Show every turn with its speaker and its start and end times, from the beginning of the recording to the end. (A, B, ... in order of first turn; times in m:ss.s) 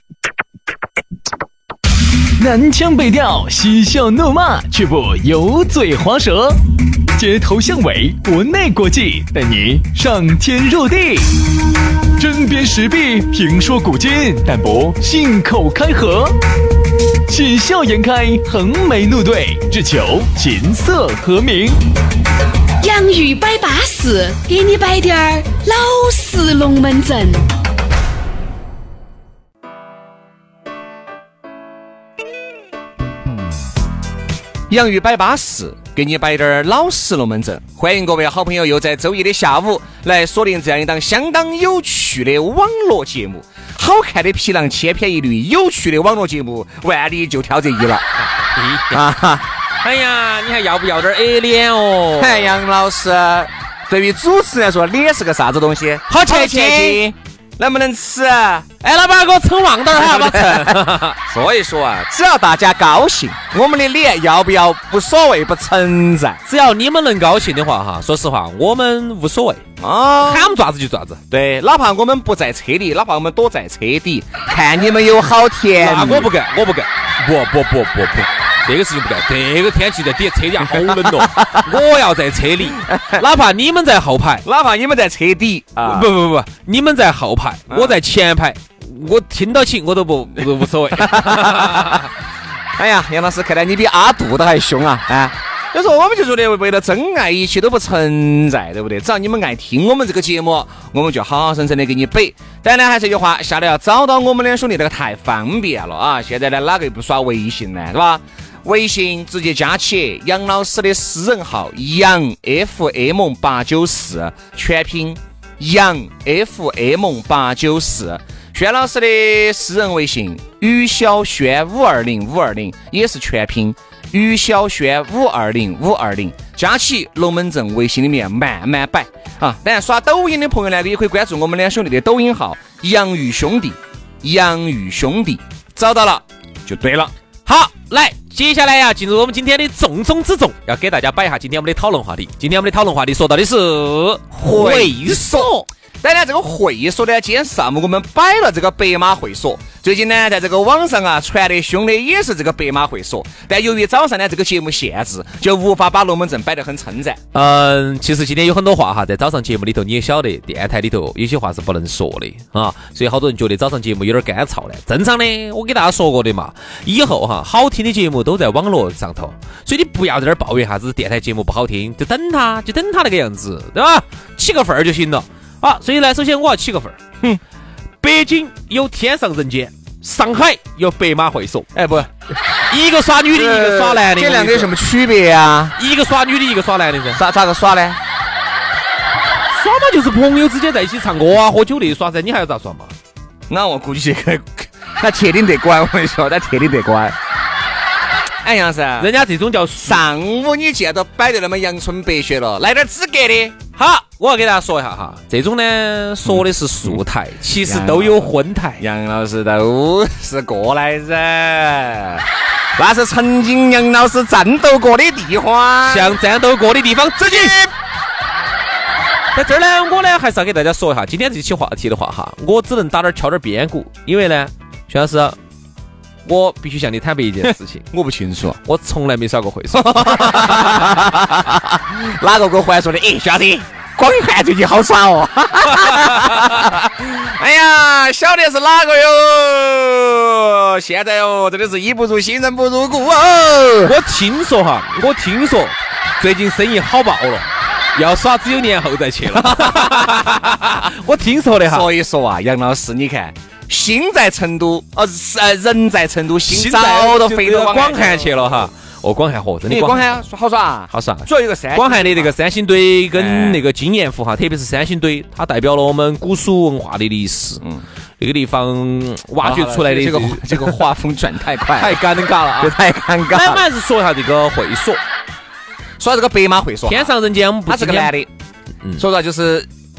0:02.4-0:06.6 A
0:07.1-0:11.4 A
0:12.2-0:16.4 A
0:17.3-0:21.8 A
0:22.8-0:27.5 B
0:34.7-0:48.0 C
0:48.3-0:49.0 D
0:48.9-0:49.5 C
0:49.8-0:52.6 D
0:52.2-0:58.7 C
0:56.1-0:57.0 D
0:58.8-1:01.2 D
0:59.9-1:06.4 C
1:06.5-1:09.6 D
1:09.8-1:10.6 C
1:10.2-1:11.2 D
1:11.3-1:16.3 C
1:15.8-1:24.4 D
1:20.7-1:21.6 C
1:22.8-1:23.2 C
1:24.4-1:26.1 C
1:25.8-1:32.1 D
1:27.7-1:28.0 C
1:30.4-1:32.1 C
1:32.8-2:17.1 C
2:17.4-2:25.7 D
2:24.3-2:37.2 C
2:37.3-2:57.0 D
2:58.0-3:01.7 D
3:01.7-3:02.1 C
3:02.7-3:04.7 D
3:03.3-3:05.8 C
3:05.8-3:07.2 D
3:07.1-3:08.0 C
3:09.5-3:12.9 D
3:13.5-3:17.2 C
3:18.4-3:19.1 C
3:19.0-3:20.0 D
3:19.8-3:23.6 C
3:23.8-3:28.8 D
3:26.2-3:27.0 C
3:27.6-3:36.2 C
3:35.8-3:37.6 D
3:37.2-3:37.7 C
3:39.3-3:45.4 D
3:46.2-3:47.9 D
3:47.9-3:48.6 C
3:48.6-3:51.0 D
3:49.7-4:04.0 C
4:03.8-4:11.9 D
4:09.3-4:10.7 C
4:11.6-4:18.6 C
4:16.5-4:20.1 D
4:19.7-4:22.3 C
4:20.9-4:27.6 D
4:23.1-4:23.6 C
4:28.2-4:30.7 D
4:29.4-4:33.6 C
4:31.8-4:32.8 D
4:33.3-4:35.0 D
4:36.0-4:37.1 C
4:36.9-4:38.1 D
4:37.7-4:38.3 C
4:39.0-4:39.7 C